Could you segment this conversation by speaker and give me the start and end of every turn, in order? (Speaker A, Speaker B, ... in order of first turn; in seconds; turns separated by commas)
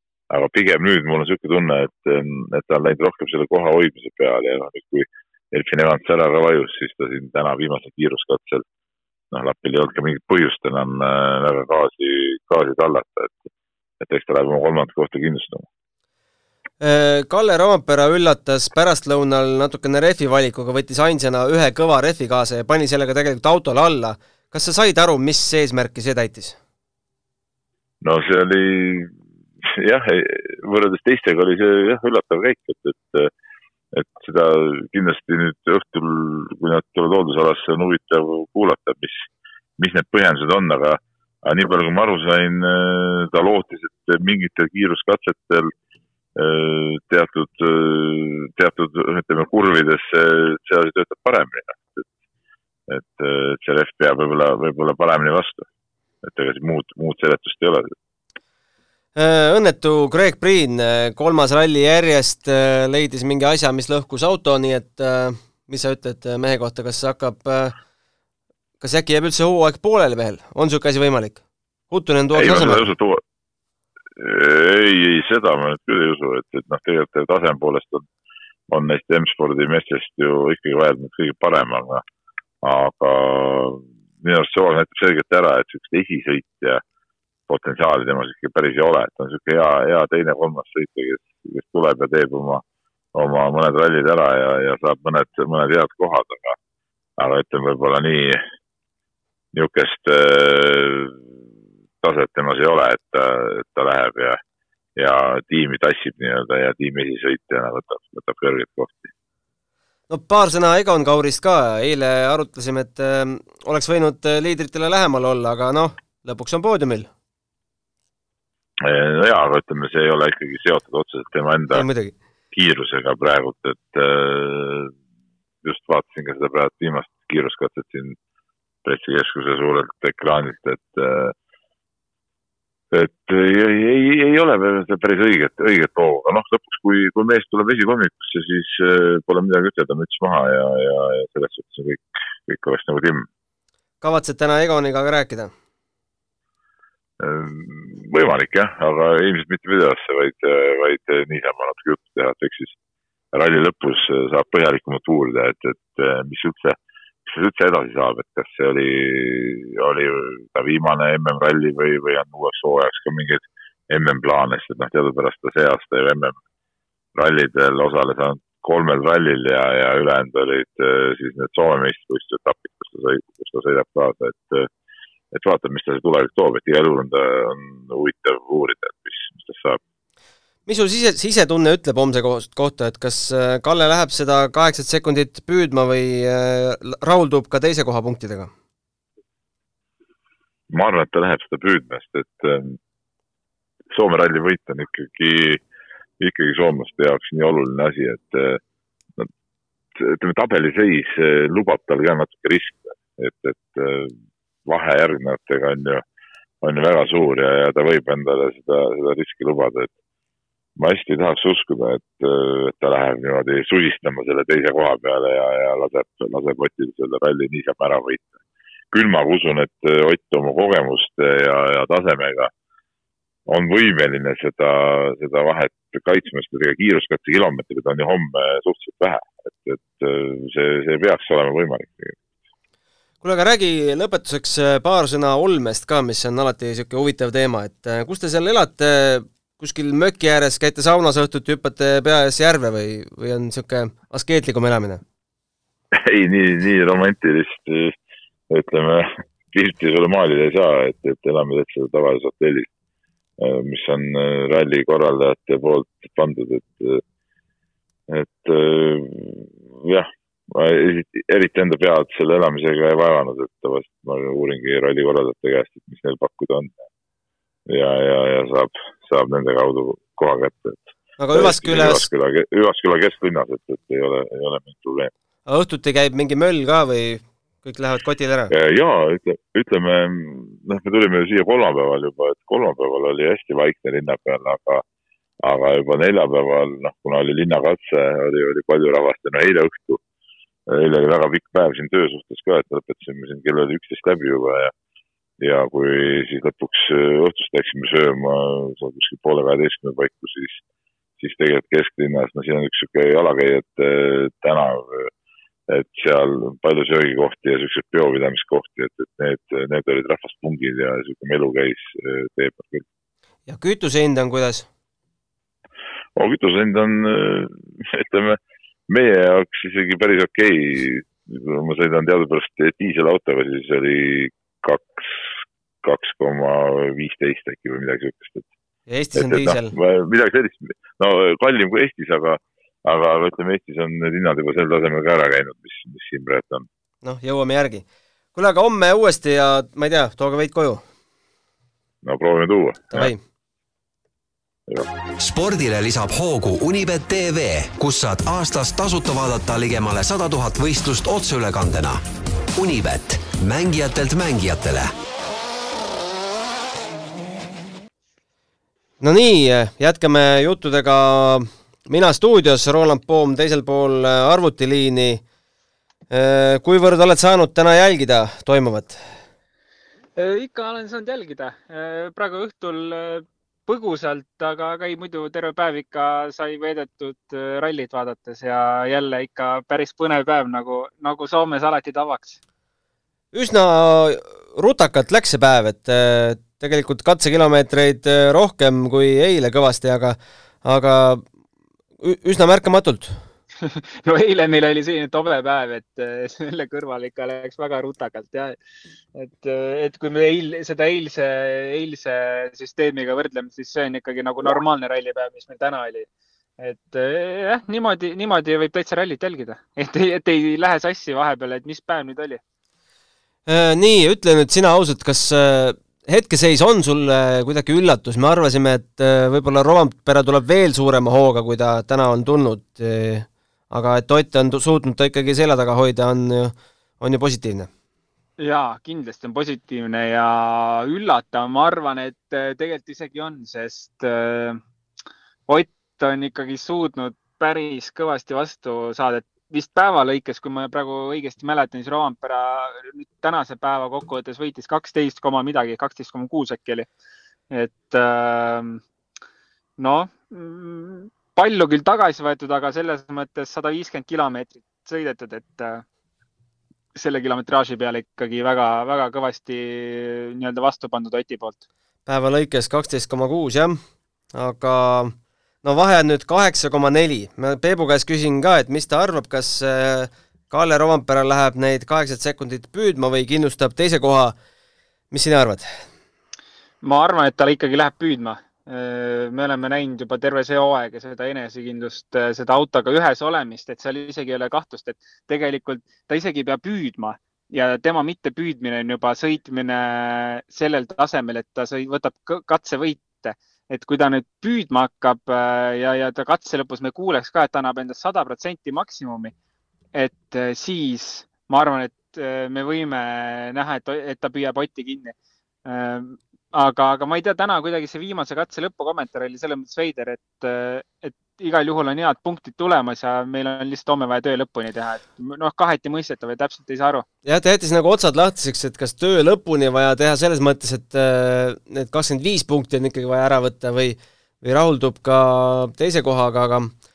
Speaker A: 0.3-8.6, Speaker A: 9.3-13.4, Speaker A: 14.0-15.7, Speaker B: 16.8-26.6, Speaker A: 28.0-33.3, Speaker A: 33.9-45.7, Speaker A: 46.4-52.1, Speaker A: 52.9-55.7, Speaker A: 56.2-58.0, Speaker B: 59.2-67.8, Speaker B: 68.8-72.9, Speaker A: 72.3-73.2, Speaker A: 74.2-78.1, Speaker A: 78.7-82.0, Speaker A: 82.6-86.8, Speaker A: 87.5-92.6, Speaker A: 93.1-96.6, Speaker A: 97.2-98.4, Speaker A: 99.5-101.2, Speaker A: 102.0-104.4, Speaker A: 105.0-109.1, Speaker B: 110.1-117.1, Speaker A: 118.8-121.9, Speaker B: 121.7-122.1, Speaker A: 122.5-124.9, Speaker A: 125.6-128.2, Speaker A: 128.8-131.3, Speaker A: 132.9-143.3, Speaker B: 144.0-145.5, Speaker A: 147.2-152.8, Speaker A: 153.3-166.4, Speaker A: 167.2-174.7, Speaker A: 175.3-179.8, Speaker B: 180.7-188.5, Speaker A: 190.7-192.8, Speaker A: 193.9-195.6, Speaker A: 196.2-198.6, Speaker A: 200.0-204.1, Speaker A: 204.7-206.0, Speaker A: 206.6-209.9, Speaker A: 210.8-218.3, Speaker A: 218.9-222.5, Speaker A: 223.5-232.2, Speaker B: 233.2-245.0, Speaker A: 245.9-248.0, Speaker A: 248.5-252.7, Speaker A: 253.4-257.0, Speaker A: 258.1-266.7, Speaker A: 267.7-275.1, Speaker B: 271.2-272.1, Speaker B: 275.5-278.5, Speaker A: 278.5-284.8, Speaker A: 285.4-290.0, Speaker A: 290.7-294.7, Speaker A: 295.4-300.6, Speaker A: 301.2-305.1, Speaker A: 305.7-312.9, Speaker B: 313.5-314.7, Speaker A: 316.2-328.5, Speaker B: 328.9-329.7, Speaker A: 329.2-336.7, Speaker B: 337.0-340.8, Speaker A: 342.0-343.1, Speaker B: 342.9-343.2, Speaker C: 345.2-352.0, Speaker C: 352.6-354.9, Speaker B: 359.0-365.2, Speaker B: 366.1-369.0, Speaker D: 370.2-382.4, Speaker B: 383.3-391.2, Speaker B: 392.0-393.2, Speaker D: 393.6-398.6, Speaker D: 399.1-406.1, Speaker D: 406.6-412.4, Speaker B: 413.5-427.7, Speaker D: 428.4-434.6, Speaker D: 435.5-446.9, Speaker D: 447.5-448.8, Speaker D: 449.8-455.8, Speaker D: 456.9-461.6, Speaker B: 462.1-463.8, Speaker B: 464.3-474.4, Speaker B: 475.1-475.7, Speaker D: 476.8-499.3, Speaker D: 499.9-517.1, Speaker B: 517.2-526.7